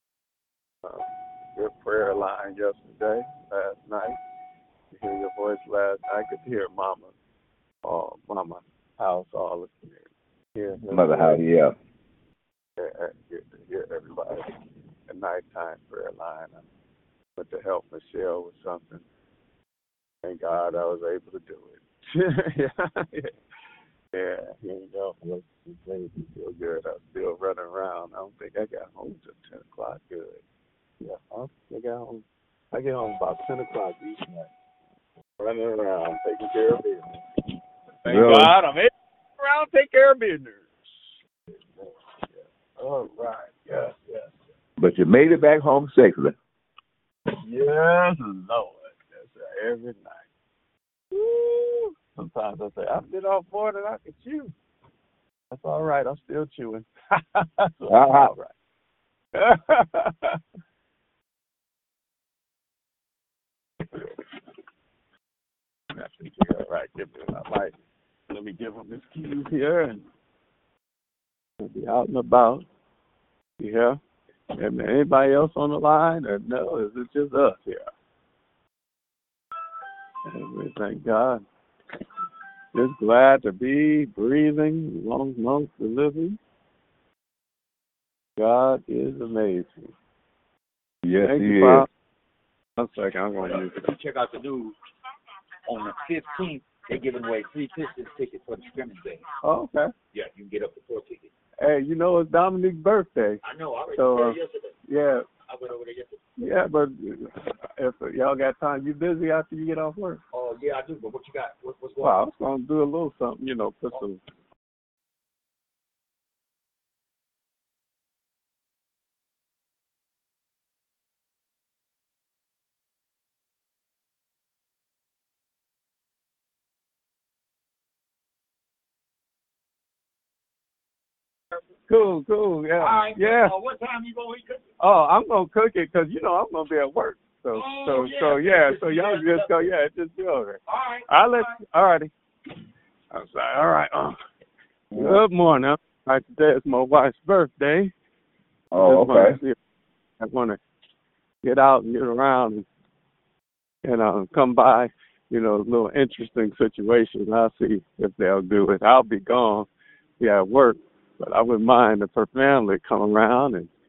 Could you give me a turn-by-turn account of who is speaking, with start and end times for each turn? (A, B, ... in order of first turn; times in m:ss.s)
0:00.8-0:04.2 A
0:04.9-0:07.1 A
0:07.8-0:11.4 A
0:10.9-0:11.7 B
0:12.8-0:14.5 A
0:15.1-0:16.6 A
0:17.4-0:19.0 A
0:20.2-0:23.3 A
0:24.1-0:30.4 A
0:31.0-0:34.5 A
0:35.4-0:37.2 A
0:38.0-0:44.4 A
0:38.1-0:38.6 B
0:44.8-0:46.4 B
0:47.4-0:50.2 A
0:51.1-0:54.5 A
0:55.5-0:58.5 A
0:57.9-0:58.3 B
0:59.3-1:00.4 A
1:03.9-1:04.2 A
1:05.9-1:07.8 A
1:08.3-1:10.0 A
1:11.6-1:12.7 A
1:13.6-1:14.0 A
1:14.6-1:17.9 A
1:20.2-1:21.4 A
1:22.7-1:26.4 A
1:28.4-1:29.9 A
1:31.0-1:31.9 B
1:31.2-1:31.9 A
1:32.8-1:33.8 A
1:33.5-1:34.8 C
1:35.7-1:39.3 C
1:39.4-1:39.9 A
1:40.1-1:41.3 C
1:41.6-1:43.4 A
1:43.4-1:44.8 C
1:43.9-1:45.3 A
1:45.5-1:46.3 C
1:46.4-1:50.2 A
1:50.3-1:52.2 C
1:52.0-1:54.2 A
2:11.9-2:13.6 A
2:12.8-2:14.5 C
2:14.8-2:22.1 A
2:17.8-2:19.2 C
2:23.1-2:24.2 A
2:24.9-2:25.2 B
2:25.0-2:27.9 A
2:28.7-2:29.4 B
2:28.8-2:29.6 A
2:30.2-2:30.6 A
2:31.4-2:32.7 A
2:33.8-2:39.7 A
2:40.2-2:43.7 A